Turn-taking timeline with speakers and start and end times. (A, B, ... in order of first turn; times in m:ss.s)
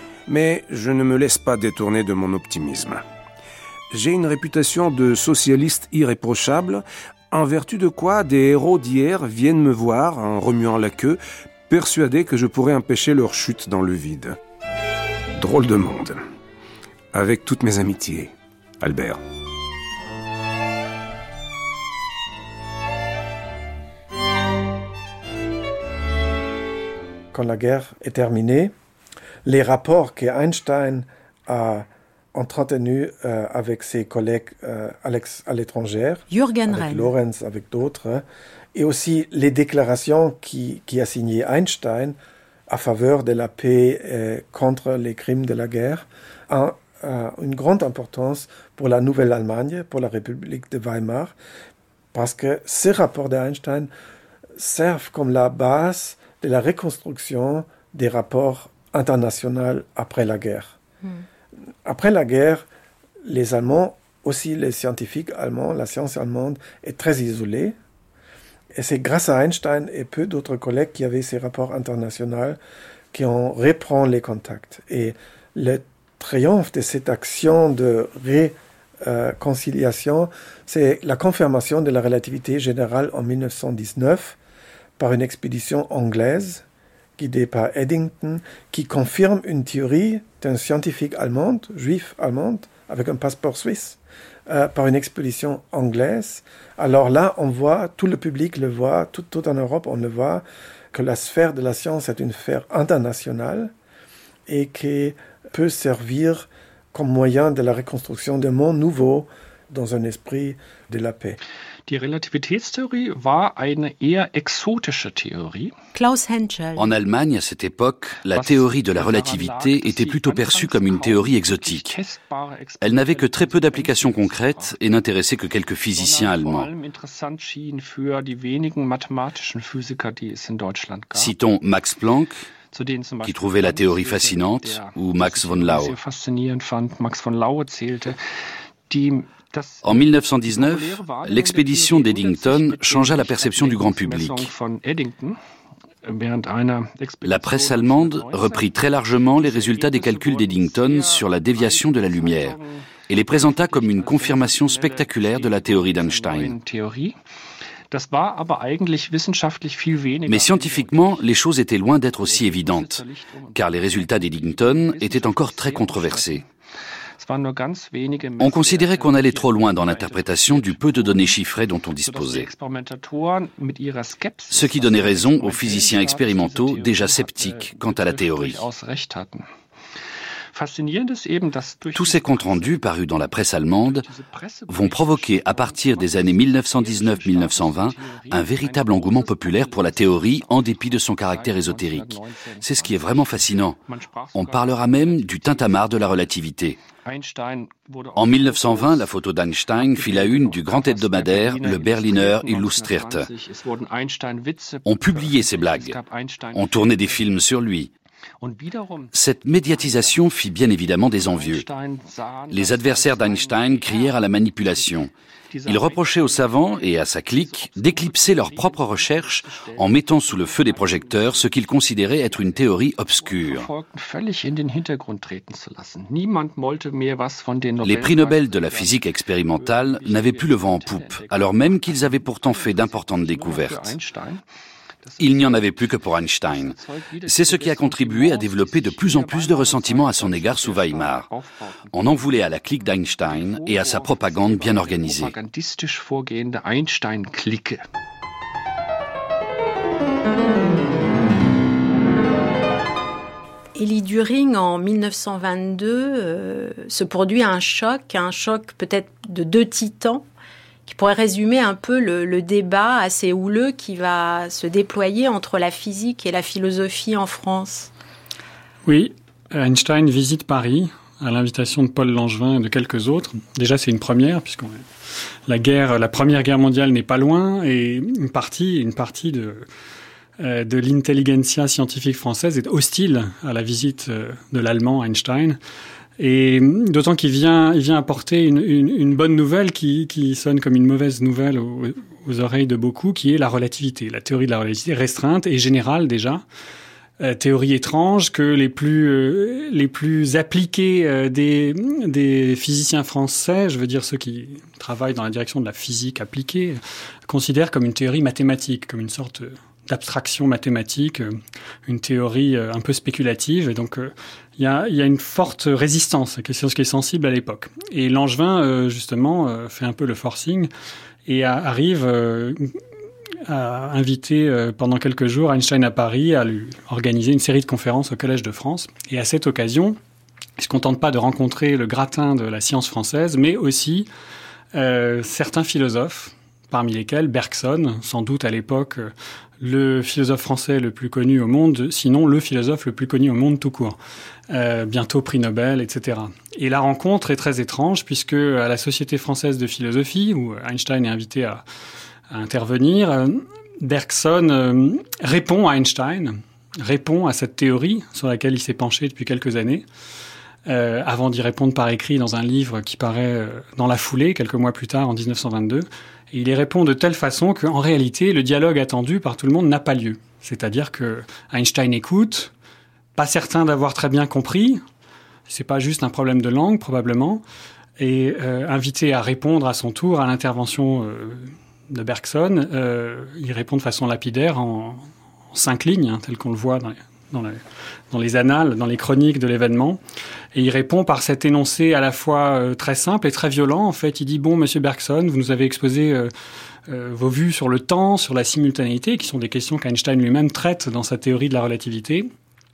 0:00.3-0:03.0 A
0:03.9-0:14.4 A
0:15.4-0:16.2 A
0:17.1-0:19.2 A
0:27.3-0:28.7 B
0:29.4-0:42.2 B
0:36.3-0:37.1 C
0:42.7-0:51.3 B
0:52.1-0:53.9 B
0:54.6-1:00.8 B
1:01.8-1:02.6 B
1:03.2-1:07.8 B
1:08.7-1:12.6 B
1:13.1-1:24.4 B
1:25.0-1:26.6 B
1:27.2-1:43.7 B
1:44.5-1:51.4 B
1:51.9-1:55.7 D
1:55.9-1:56.9 C
1:56.8-2:01.9 E
1:58.3-2:04.8 D
2:02.8-2:06.7 E
2:05.9-2:11.3 D
2:11.1-2:12.4 E
2:12.7-2:18.2 D
2:13.2-2:15.9 E
2:18.9-2:25.4 D
2:19.8-2:24.5 E
2:26.0-2:37.2 D
2:27.2-2:32.6 E
2:33.1-2:36.5 E
2:37.9-2:41.3 D
2:40.3-2:43.0 E
2:42.1-2:46.5 D
2:43.5-2:46.4 E
2:47.2-2:59.5 D
2:48.4-2:52.5 E
2:54.5-2:58.6 E
3:00.5-3:02.8 D
3:01.9-3:04.1 E
3:03.8-3:16.3 D
3:04.7-3:13.8 E
3:14.3-3:16.8 E
3:17.0-3:19.1 D
3:18.2-3:23.3 E
3:19.7-3:27.3 D
3:24.8-3:26.0 E
3:26.5-3:27.9 E
3:28.4-3:30.3 D
3:29.1-3:31.6 E
3:31.0-3:54.4 D
3:32.5-3:35.1 E
3:35.6-3:43.7 E
3:47.8-3:53.9 E
3:55.0-4:07.8 D
3:55.2-4:01.3 E
4:01.9-4:05.4 E
4:13.7-4:20.3 C
4:20.8-4:27.9 C
4:28.8-4:34.8 F
4:35.5-4:39.6 F
4:40.4-4:45.6 F
4:46.2-4:56.4 F
4:57.2-5:20.7 F
5:21.2-5:22.7 F
5:23.5-5:30.0 F
5:30.6-5:34.1 F
5:34.7-5:44.0 F
5:44.5-5:51.6 F
5:52.3-5:59.8 F
6:00.6-6:12.5 F
6:13.1-6:14.8 F
6:15.5-6:17.4 F
6:18.0-6:30.0 F
6:30.5-6:36.3 F
6:36.9-6:42.3 F